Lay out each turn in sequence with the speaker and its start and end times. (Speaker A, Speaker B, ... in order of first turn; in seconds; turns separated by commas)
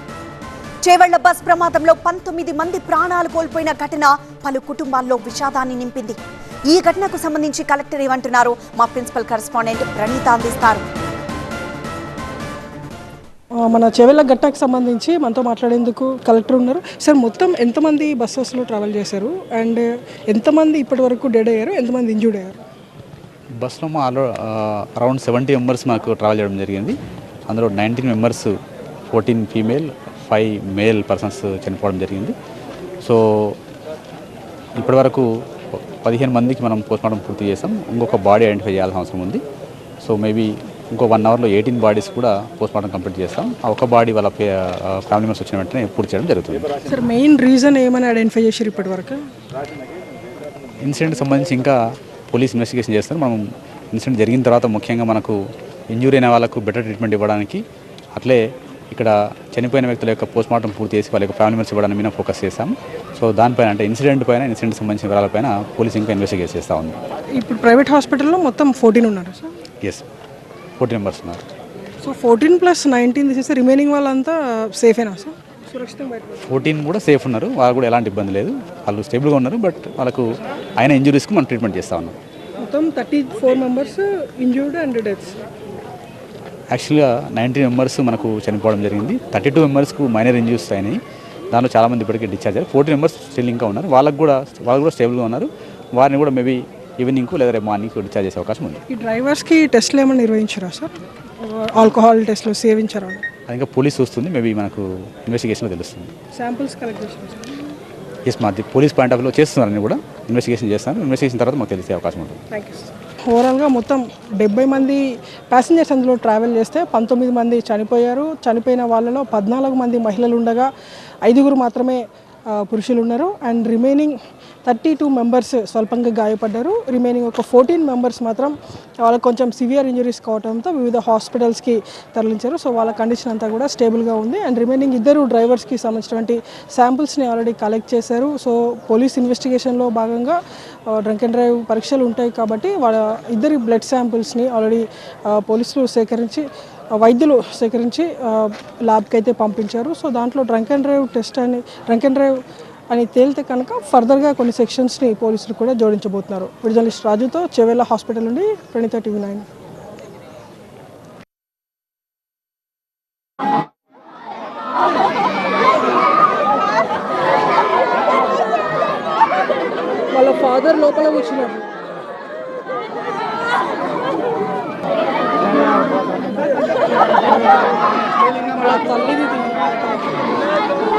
Speaker A: 0.8-10.9, Speaker B: 13.6-22.6, Speaker C: 23.6-28.5, Speaker C: 29.1-32.3, Speaker C: 33.0-33.6, Speaker C: 34.8-35.3, Speaker C: 36.0-39.4, Speaker C: 40.0-46.7, Speaker B: 46.9-49.2, Speaker C: 50.8-51.8, Speaker C: 52.3-55.4, Speaker C: 55.9-57.6, Speaker C: 58.2-67.0, Speaker B: 67.3-69.5, Speaker C: 70.8-71.4, Speaker B: 72.0-76.6, Speaker C: 76.5-80.2, Speaker C: 80.8-82.2, Speaker B: 82.6-85.4, Speaker C: 86.7-91.0, Speaker C: 91.5-98.8, Speaker B: 98.9-103.2, Speaker C: 103.5-106.1, Speaker B: 106.3-107.5, Speaker C: 108.3-112.4, Speaker B: 112.5-120.7, Speaker B: 121.2-122.0, Speaker B: 122.5-124.1, Speaker B: 124.7-140.4, Speaker B: 140.9-146.4, Speaker B: 147.0-152.3, Speaker B: 152.9-159.5, Speaker B: 170.1-171.7, Speaker B: 178.5-180.1